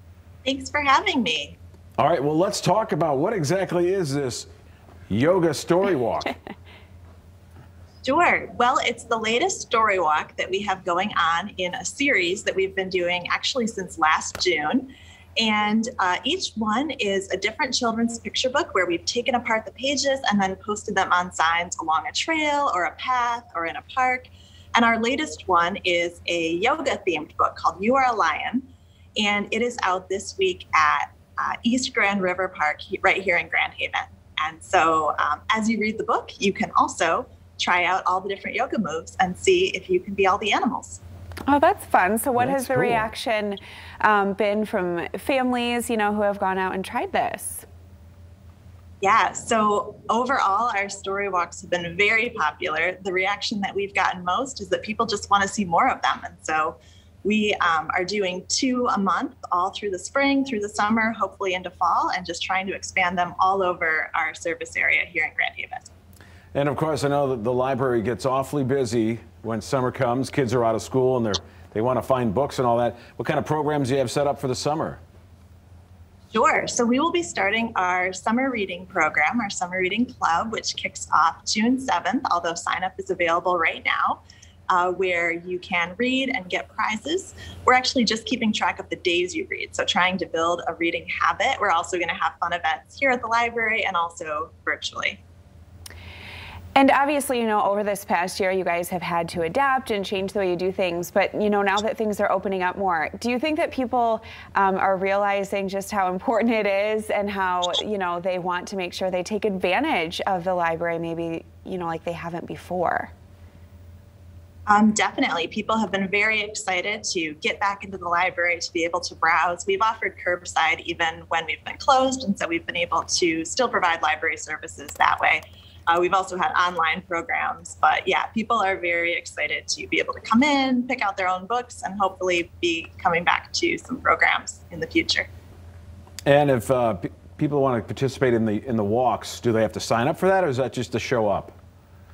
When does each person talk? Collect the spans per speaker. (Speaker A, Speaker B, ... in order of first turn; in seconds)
Speaker A: 0.5-1.6, 8.0-41.0, 49.0-65.9, 76.3-95.2, 114.7-135.3
Speaker B: 2.0-4.5, 5.1-6.3, 42.4-43.1, 66.5-75.0, 136.3-141.6
Speaker C: 41.5-47.6, 96.8-113.1